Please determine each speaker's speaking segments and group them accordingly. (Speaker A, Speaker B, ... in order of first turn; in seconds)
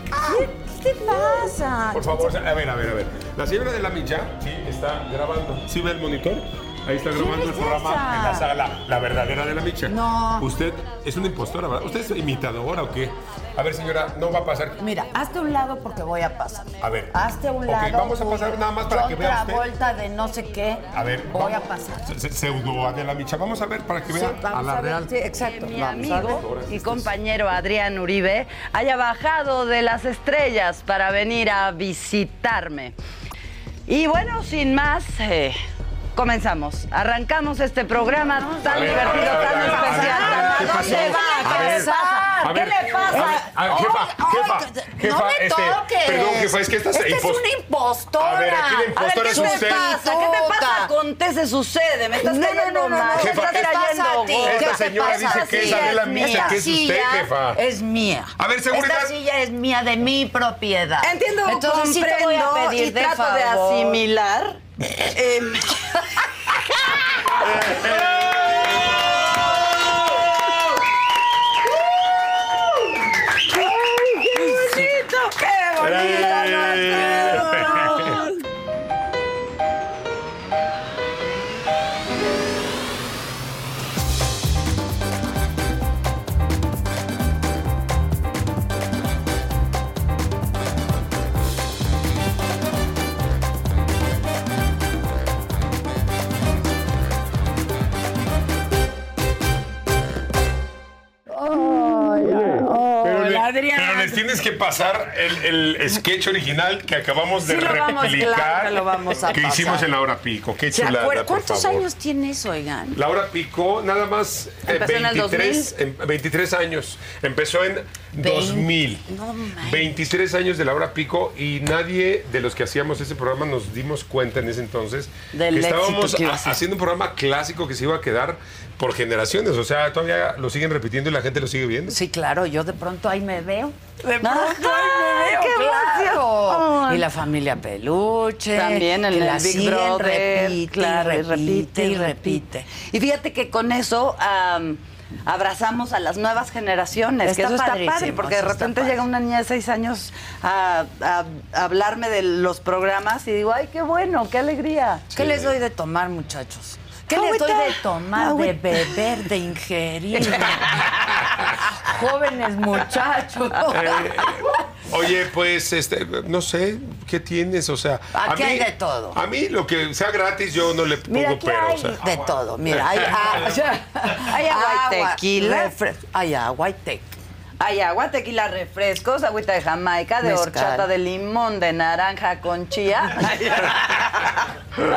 Speaker A: 0.1-2.3, 7.1-8.5, 9.8-10.5, 14.8-22.1, 24.1-26.4, 38.5-50.9, 52.2-64.0, 74.2-74.9, 75.6-78.3, 101.3-104.2, 107.4-109.9, 110.7-113.0, 118.2-120.0, 131.9-142.7, 147.2-149.0, 155.1-161.0, 161.6-164.3, 168.1-169.2, 171.1-177.2, 180.2-180.8
Speaker B: 1.9-14.8, 16.8-19.7, 20.9-25.1, 26.0-27.1, 38.6-47.4, 48.2-49.9, 53.1-53.7, 54.4-57.6, 58.4-59.1, 67.3-68.8, 75.8-78.2, 103.0-111.8, 112.9-119.0, 119.6-132.0, 155.1-155.5, 160.6-161.4, 163.7-173.4
Speaker C: 25.4-33.0, 33.9-35.6, 36.1-43.4, 49.0-56.6, 61.0-68.5, 73.5-78.2, 114.7-115.7, 125.3-126.6, 134.2-137.1, 138.5-155.1, 157.1-159.2, 173.5-175.7, 177.6-184.4